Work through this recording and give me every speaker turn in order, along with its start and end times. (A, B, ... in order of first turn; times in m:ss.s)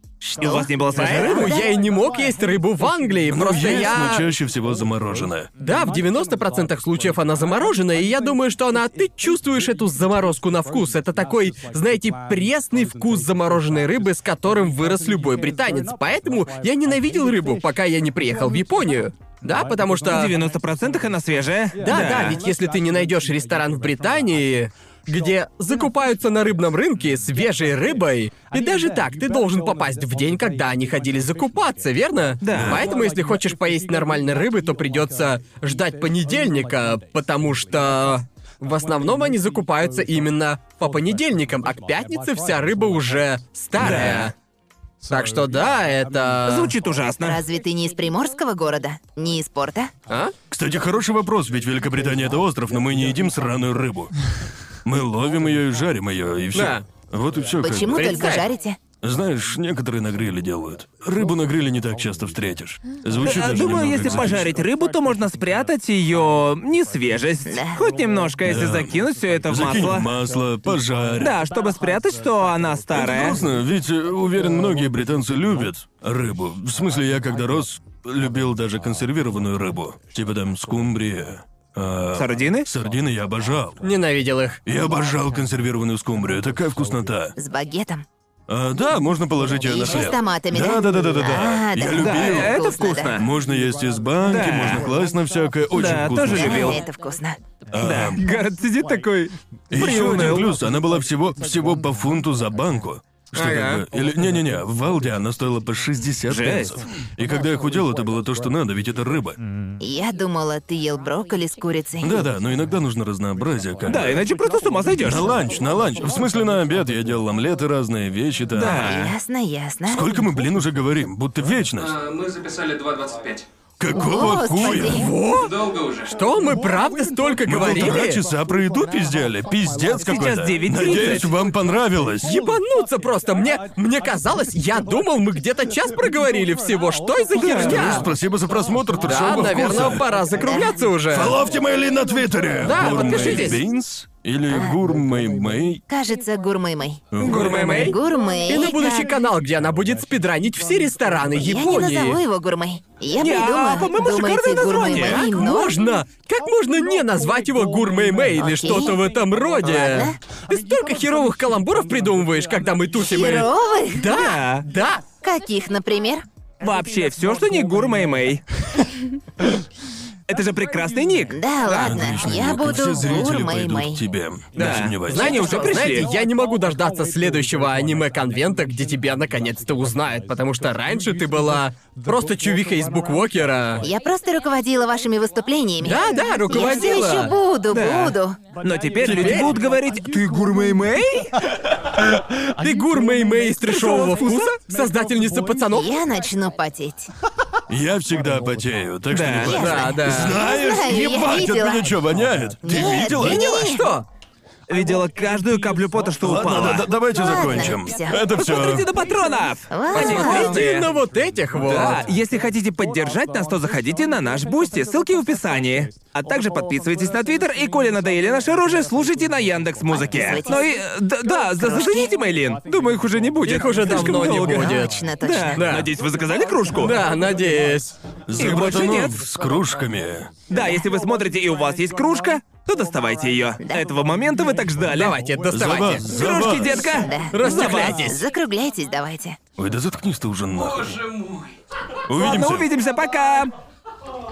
0:00.2-0:01.7 A
0:00.4-0:01.6 B
0:01.0-0:04.3 C
0:03.3-0:05.5 D
0:05.6-0:20.3 C
0:20.1-0:22.4 B
0:21.8-0:44.3 C
0:32.4-0:32.9 B
0:32.5-0:32.9 D
0:43.8-0:44.3 B
0:45.1-0:46.7 C
0:46.4-0:47.4 B
0:47.2-0:49.9 A
0:50.1-0:50.3 C
0:50.5-0:54.1 D
0:54.8-0:58.4 D
0:56.5-0:56.8 C
0:57.6-0:58.8 A
0:57.9-0:58.5 C
0:59.0-1:04.6 D
1:03.2-1:10.1 B
1:07.5-1:07.8 A
1:08.4-1:11.4 D
1:11.2-1:13.4 B
1:12.9-1:23.9 D
1:22.2-1:22.7 B
1:23.8-1:24.6 C
1:24.6-1:27.4 D
1:27.4-1:28.1 A
1:28.5-1:36.8 D
1:29.6-1:33.2 A
1:32.0-1:33.2 B
1:34.3-1:34.8 B
1:35.7-1:36.8 B
1:36.3-1:37.4 A
1:37.7-1:38.2 D
1:37.8-1:40.5 B
1:39.7-1:49.4 D
1:43.3-1:43.8 C
1:46.3-1:46.8 B
1:49.8-1:52.2 A
1:52.0-1:54.2 D
1:53.9-1:55.3 B
1:55.0-1:59.1 D
1:58.5-1:59.2 B
1:58.8-2:00.1 A
1:59.9-2:02.0 D
2:01.8-2:03.5 E
2:03.8-2:05.1 D
2:03.9-2:05.1 A
2:04.8-2:05.6 C
2:05.3-2:06.2 E
2:06.1-2:08.2 C
2:07.5-2:12.4 D
2:10.1-2:11.3 B
2:12.2-2:18.1 C
2:17.4-2:17.9 B
2:17.5-2:20.1 D
2:19.0-2:21.4 C
2:20.4-2:20.8 A
2:21.1-2:25.8 D
2:22.6-2:23.6 C
2:24.5-2:24.8 A
2:25.9-2:29.1 A
2:27.1-2:27.9 D
2:27.2-2:27.9 B
2:27.2-2:32.2 C
2:31.4-2:35.8 A
2:33.2-2:35.3 B
2:34.9-2:45.0 C
2:38.5-2:39.0 A
2:39.6-2:40.2 A
2:43.0-2:44.1 A
2:44.0-2:44.6 B
2:45.2-2:46.2 A
2:46.6-2:48.4 B
2:50.3-2:51.4 B
2:51.3-2:54.0 A
2:51.7-2:55.4 D
2:54.6-2:56.1 B
2:54.7-3:03.9 C
3:03.8-3:08.4 A
3:05.8-3:07.4 C
3:07.7-3:11.4 B
3:09.0-3:09.5 C
3:12.3-3:15.9 C
3:13.7-3:14.6 B
3:15.7-3:17.1 A
3:17.7-3:23.6 D
3:19.1-3:19.6 B
3:19.4-3:21.9 A
3:19.4-3:20.4 C
3:22.6-3:23.9 A
3:23.2-3:24.1 C
3:24.7-3:26.9 B
3:26.2-3:28.9 D
3:27.1-3:28.2 A
3:28.3-3:30.9 B
3:29.7-3:30.6 A
3:29.9-3:32.0 C
3:31.6-3:47.0 B
3:39.9-3:40.6 A
3:41.6-3:42.1 A
3:43.4-3:44.9 C
3:44.6-3:45.6 A
3:45.6-3:45.9 C
3:46.8-3:48.0 C
3:48.3-3:50.3 D
3:48.4-3:49.2 B
3:50.5-3:55.2 B
3:53.6-3:53.9 A
3:54.9-3:56.1 C
3:55.5-3:57.1 D
3:56.0-3:58.2 B
3:56.9-3:59.4 A
3:57.3-3:58.2 C
3:59.6-4:01.1 D
4:00.6-4:01.5 E
4:02.1-4:02.7 D
4:02.1-4:03.5 B